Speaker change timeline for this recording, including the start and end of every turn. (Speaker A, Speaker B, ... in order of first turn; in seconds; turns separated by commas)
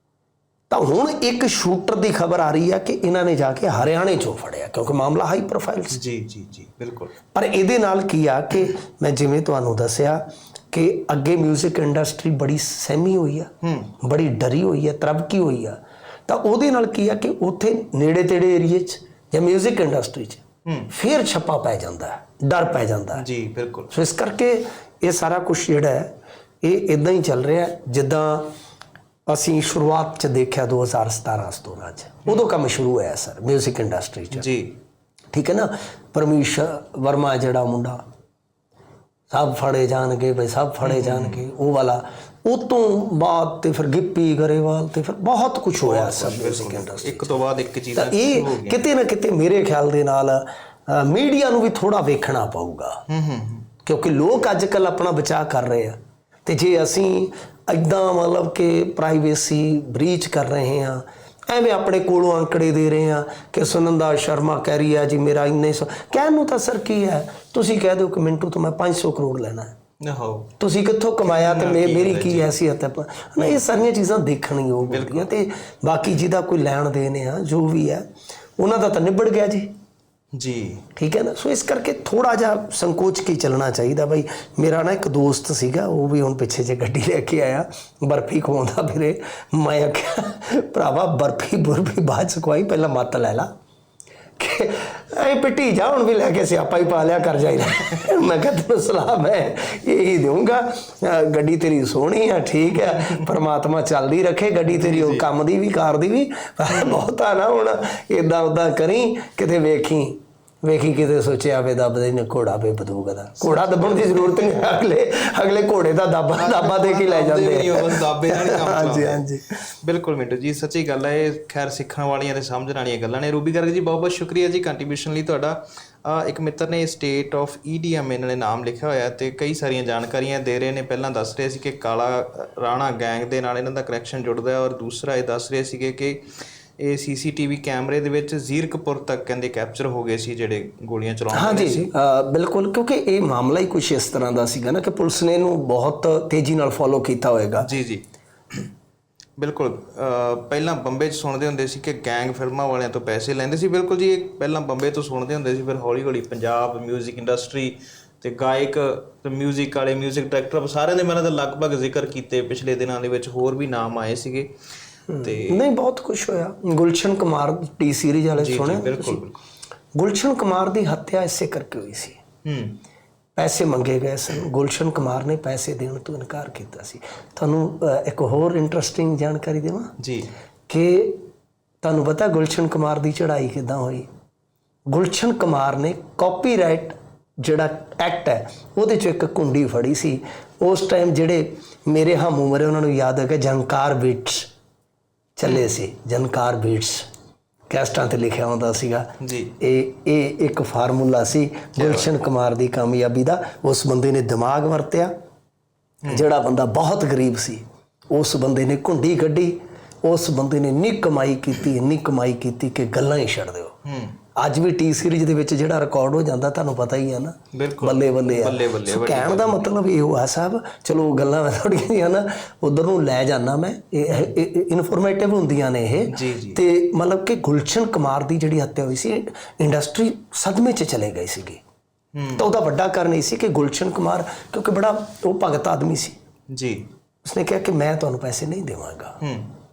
Speaker A: 0.7-6.0, Speaker B: 5.9-7.1, Speaker A: 7.3-23.2, Speaker B: 13.6-13.9, Speaker B: 20.6-20.9, Speaker B: 23.1-23.9, Speaker A: 23.9-28.5, Speaker A: 29.3-34.5, Speaker B: 34.3-34.8, Speaker A: 35.3-38.0, Speaker A: 39.3-47.4, Speaker B: 40.8-41.4, Speaker B: 45.8-48.8, Speaker A: 47.9-53.0, Speaker B: 53.1-53.7, Speaker A: 53.8-69.7, Speaker B: 70.0-70.5, Speaker A: 70.6-78.0, Speaker B: 71.2-72.6, Speaker B: 73.4-73.7, Speaker B: 74.8-75.3, Speaker A: 78.6-79.7, Speaker B: 80.3-80.8, Speaker A: 81.0-93.5, Speaker A: 94.4-119.5, Speaker B: 102.8-103.3, Speaker B: 104.7-105.2, Speaker B: 106.7-107.0, Speaker B: 113.4-114.5, Speaker B: 116.3-119.2, Speaker B: 119.8-136.2, Speaker B: 136.8-141.9, Speaker A: 141.3-147.7, Speaker B: 147.6-148.7, Speaker B: 149.4-164.5, Speaker A: 165.1-169.2, Speaker B: 165.2-165.7, Speaker B: 168.3-169.4, Speaker A: 169.9-172.2, Speaker B: 172.4-172.8, Speaker A: 173.3-179.9, Speaker B: 180.0-180.3, Speaker A: 180.7-181.2, Speaker A: 181.8-184.1, Speaker A: 184.9-194.5, Speaker A: 195.4-197.1, Speaker A: 197.7-199.1, Speaker B: 199.2-199.5, Speaker A: 199.6-205.1, Speaker B: 201.8-202.1, Speaker A: 206.1-213.8, Speaker B: 213.8-214.2, Speaker A: 214.3-231.6, Speaker B: 217.5-219.7, Speaker B: 226.1-226.6, Speaker B: 232.1-232.4, Speaker A: 232.3-236.2, Speaker B: 236.5-236.9, Speaker A: 237.2-239.2, Speaker B: 239.2-239.5